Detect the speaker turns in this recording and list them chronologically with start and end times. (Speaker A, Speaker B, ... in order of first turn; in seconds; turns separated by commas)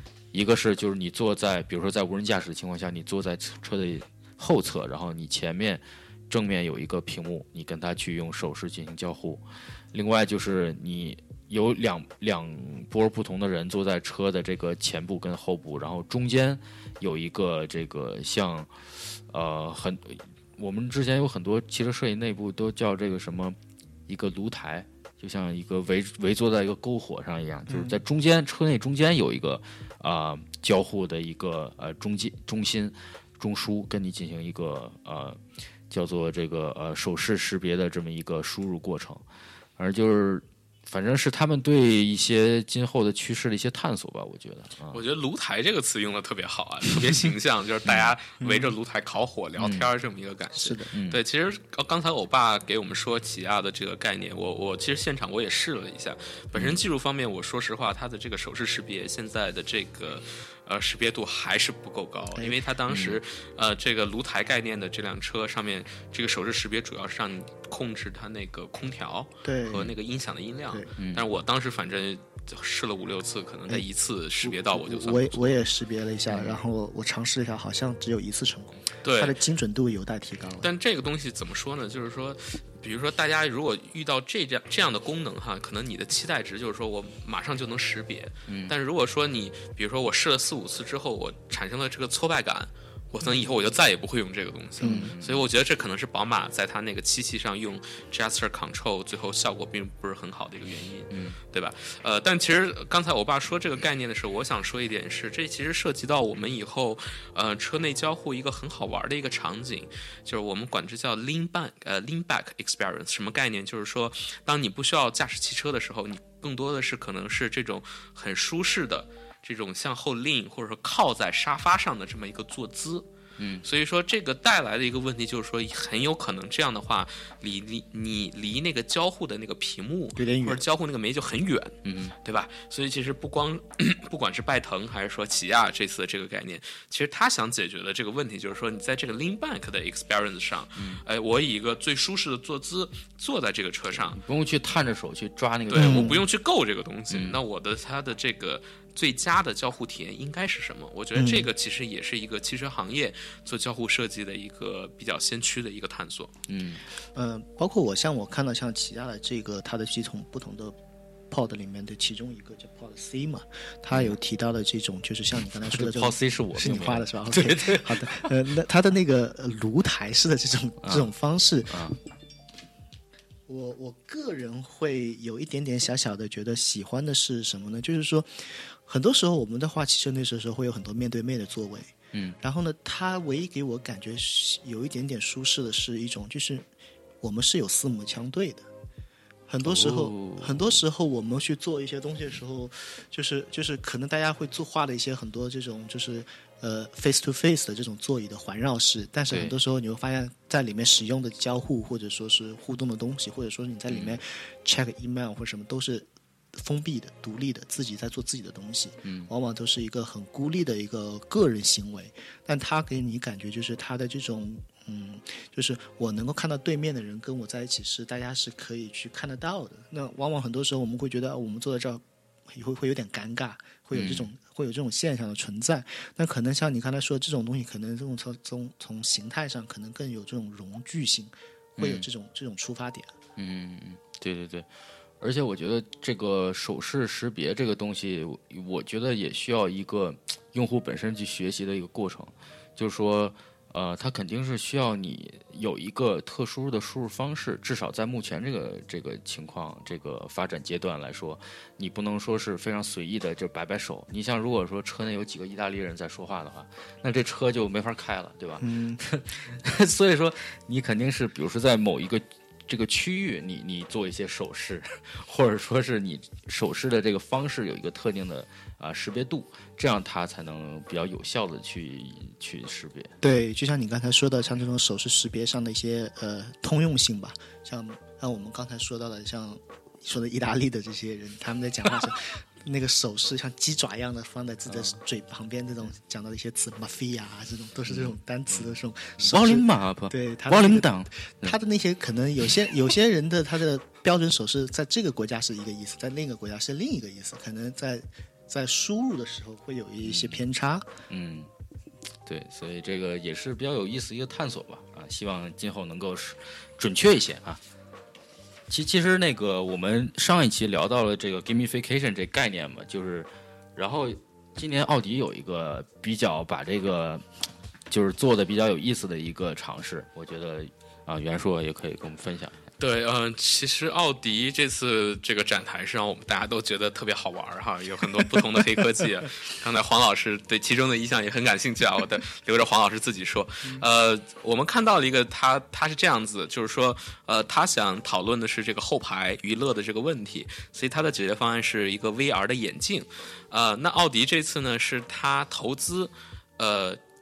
Speaker A: 0.3-23.6, Speaker A: 24.1-39.2, Speaker B: 27.7-28.0, Speaker A: 39.8-45.0, Speaker C: 44.9-75.5, Speaker A: 47.9-48.1, Speaker B: 48.4-48.7, Speaker A: 49.6-49.9, Speaker B: 50.5-50.9, Speaker A: 50.9-51.2, Speaker A: 56.5-56.8, Speaker A: 62.9-63.2, Speaker B: 69.4-69.9, Speaker A: 71.0-71.2, Speaker B: 74.4-80.7, Speaker A: 76.3-76.6, Speaker C: 79.0-79.4, Speaker C: 80.6-123.1, Speaker A: 88.5-88.7, Speaker B: 94.8-95.1, Speaker A: 94.8-95.4, Speaker A: 101.1-101.4, Speaker A: 123.4-123.6, Speaker C: 123.6-144.2, Speaker B: 130.2-130.6, Speaker A: 131.8-132.1, Speaker A: 143.9-146.2, Speaker C: 145.7-156.3, Speaker B: 145.8-146.2, Speaker A: 147.1-147.4, Speaker B: 151.1-151.5, Speaker A: 156.5-156.8, Speaker B: 157.1-160.8, Speaker B: 161.3-171.9, Speaker A: 165.7-168.4, Speaker A: 170.8-171.1, Speaker A: 171.7-172.0, Speaker B: 173.5-186.7, Speaker B: 187.2-188.7, Speaker B: 189.5-233.1, Speaker A: 189.6-190.8, Speaker A: 199.3-199.6, Speaker A: 203.9-204.2, Speaker A: 209.0-209.3, Speaker A: 223.9-224.3, Speaker A: 231.8-232.1, Speaker A: 233.4-234.7, Speaker A: 235.2-273.1, Speaker B: 258.6-259.0, Speaker B: 273.2-300.9, Speaker A: 284.7-284.9, Speaker A: 287.9-291.6, Speaker A: 300.0-300.4, Speaker A: 301.1-301.5, Speaker A: 302.2-307.6, Speaker A: 308.7-317.3, Speaker A: 317.9-322.6, Speaker C: 322.8-347.0